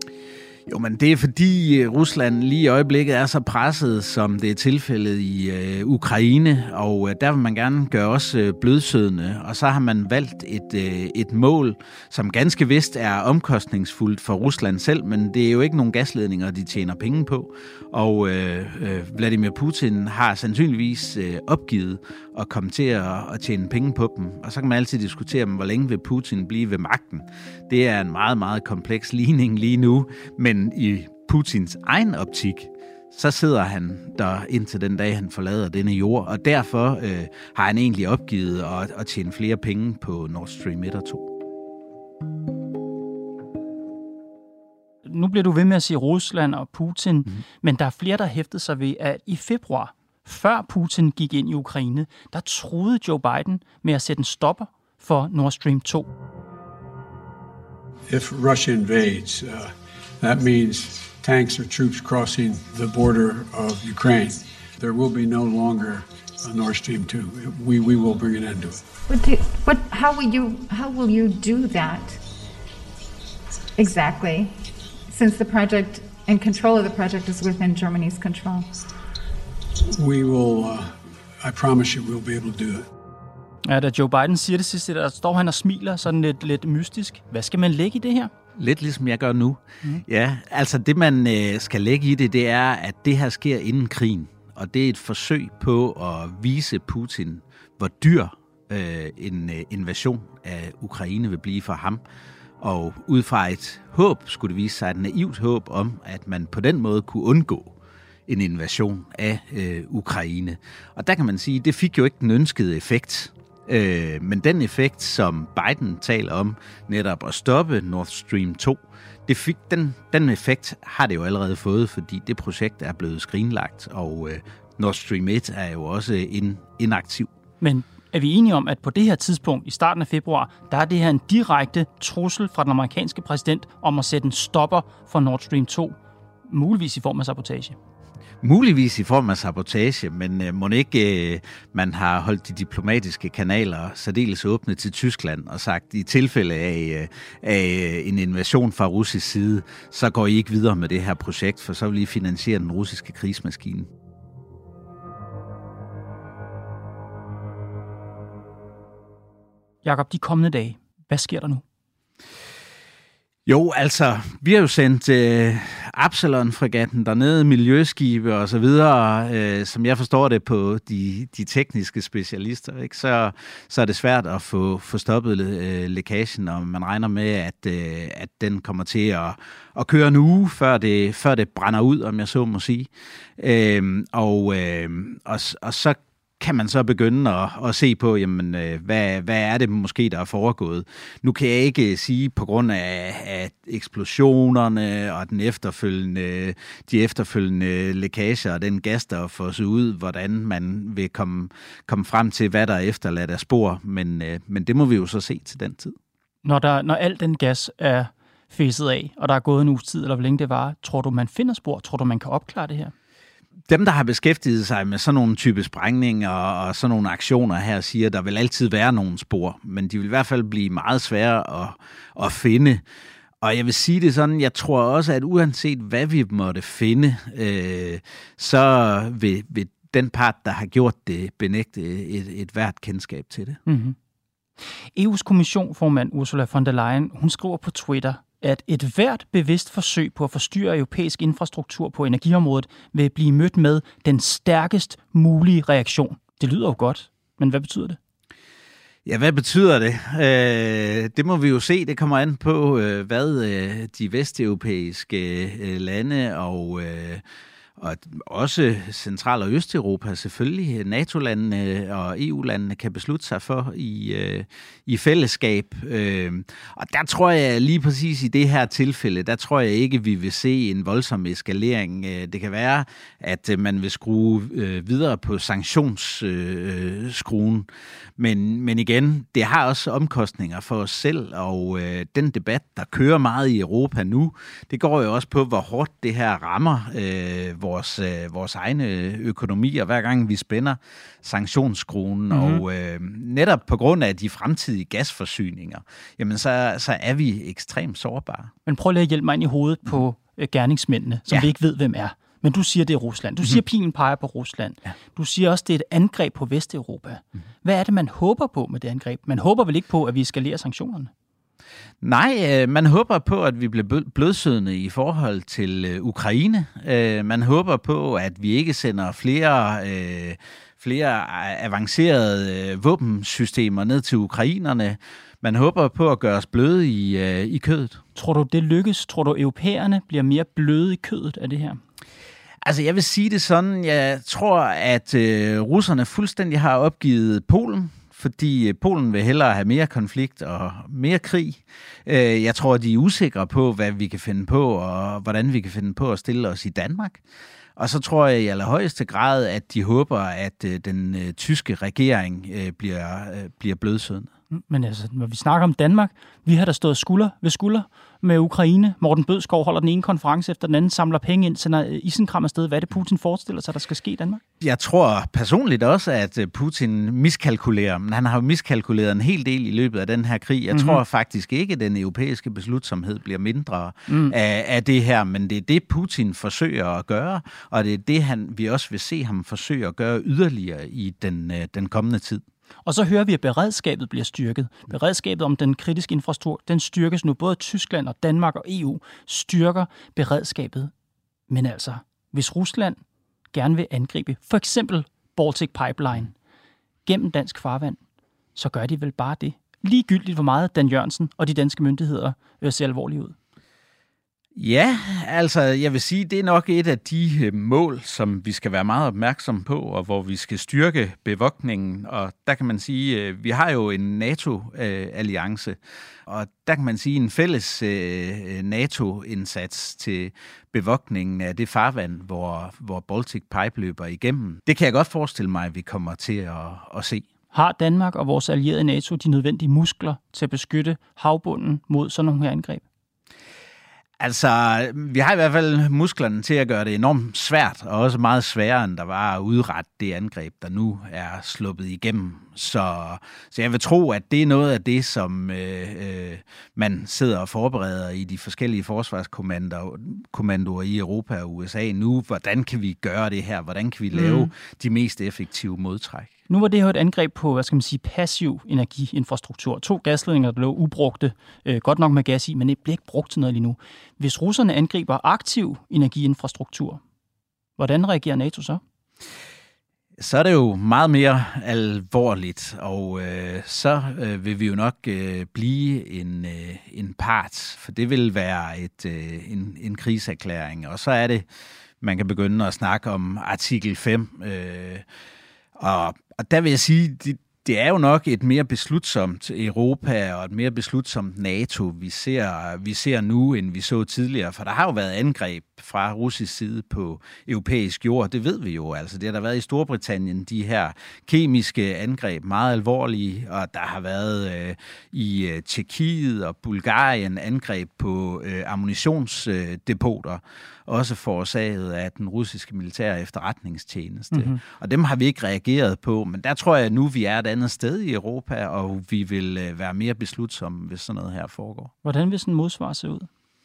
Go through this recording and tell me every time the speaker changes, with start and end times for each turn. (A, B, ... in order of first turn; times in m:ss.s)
0:00.7-0:41.3 A
0:45.0-0:56.1 B
0:58.1-1:08.8 C
1:09.1-1:12.2 D
1:13.8-1:14.5 D
1:15.1-1:18.7 D
1:19.9-1:22.9 C
1:23.6-1:28.3 B
1:28.6-1:42.0 A
1:42.6-1:47.7 A
1:48.3-2:07.3 A
2:07.6-2:16.0 B
2:16.5-2:17.8 B
2:18.4-2:33.9 A
2:39.8-2:41.6 B
2:43.5-3:26.0 A
3:26.4-3:32.9 B
3:33.7-3:42.8 A
3:43.4-3:53.6 A
3:53.7-3:54.0 B
3:55.0-4:08.0 B
4:09.1-4:17.2 A
4:17.8-4:37.7 A
4:38.2-4:58.5 A
4:52.3-4:52.6 B
4:58.7-5:11.1 B
5:12.0-5:28.0 A
5:28.2-5:31.8 B
5:32.6-5:47.2 A
5:47.8-5:54.3 A
5:54.5-6:04.4 B
6:04.6-6:22.4 A
6:10.7-6:11.0 B
6:14.1-6:14.3 B
6:22.9-6:30.9 B
6:31.5-6:33.0 B
6:33.5-6:36.3 B
6:37.1-6:38.0 B
6:38.6-6:43.4 B
6:44.6-7:07.3 A
7:07.5-7:12.8 B
7:14.2-7:36.3 A
7:34.1-7:34.5 B
7:36.5-7:47.0 B
7:47.8-7:48.8 B
7:50.2-8:01.5 A
8:02.0-8:05.1 A
8:05.8-8:41.9 A
8:34.3-8:34.6 B
8:42.0-8:43.3 B